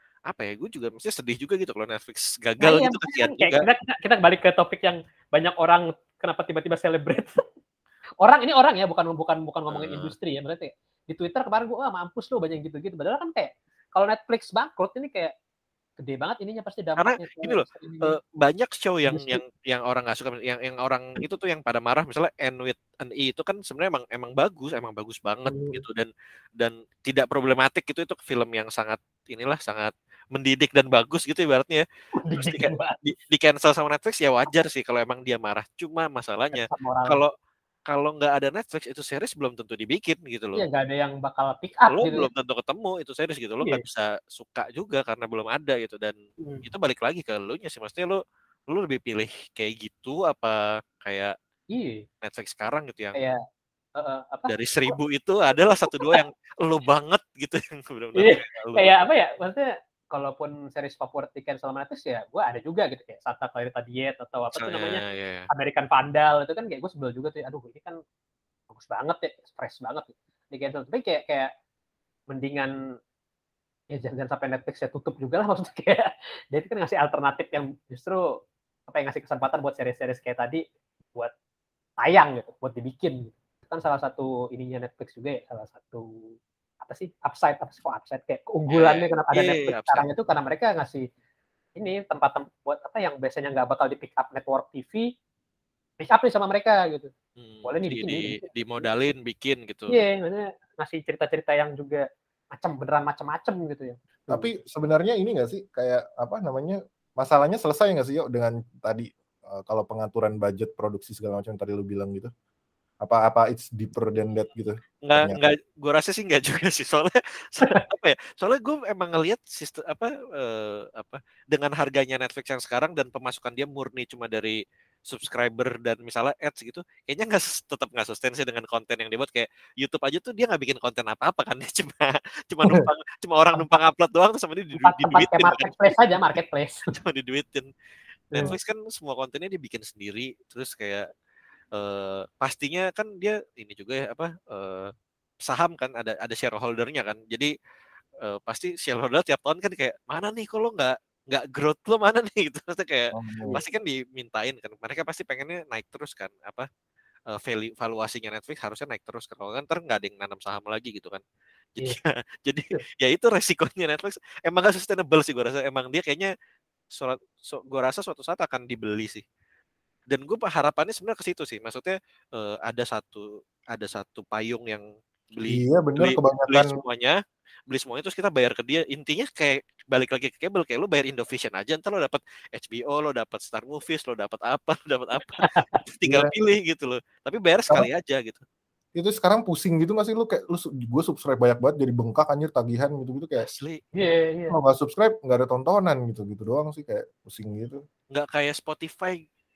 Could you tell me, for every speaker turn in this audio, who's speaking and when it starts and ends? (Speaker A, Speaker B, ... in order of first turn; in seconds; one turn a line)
Speaker A: 0.3-3.6
Speaker B: 2.6-7.4
Speaker B: 8.2-15.3
Speaker A: 9.7-10.1
Speaker B: 16.0-18.1
Speaker A: 17.0-37.3
Speaker B: 19.1-19.4
Speaker B: 25.5-25.8
Speaker B: 32.2-33.0
Speaker B: 36.5-37.2
Speaker A: 37.9-40.6
Speaker B: 40.5-42.3
Speaker A: 41.9-51.3
Speaker B: 51.7-52.0
Speaker A: 52.2-53.2
Speaker B: 54.0-55.0
Speaker A: 54.5-59.0
Speaker B: 55.9-56.2
Speaker B: 58.1-68.0
Speaker A: 64.5-65.5
Speaker B: 68.7-71.5
Speaker B: 72.3-72.7
Speaker B: 73.9-78.2
Speaker B: 78.9-80.6
Speaker B: 82.0-91.0
Speaker A: 88.7-90.1
Speaker B: 91.8-95.1
Speaker B: 96.0-97.1
Speaker A: 97.4-100.0
Speaker B: 97.6-98.4
Speaker B: 99.9-104.5
Speaker C: 104.3-112.3
Speaker C: 113.0-115.4
Speaker A: 115.0-124.6
Speaker A: 125.1-135.9
Speaker B: 134.8-136.8
Speaker A: 136.9-137.7
Speaker A: 138.4-141.1
Speaker A: 141.7-144.9
Speaker A: 145.4-147.5
Speaker A: 148.2-156.7
Speaker C: 153.1-153.6
Speaker A: 157.3-161.2
Speaker A: 161.7-166.3
Speaker A: 166.9-169.2
Speaker A: 170.1-177.2
Speaker C: 175.5-176.7
Speaker A: 177.7-188.4
Speaker B: 185.4-185.8
Speaker C: 186.1-186.3
Speaker C: 188.9-193.4
Speaker A: 193.4-193.8
Speaker B: 193.9-194.6
Speaker C: 194.5-197.8
Speaker A: 198.1-199.2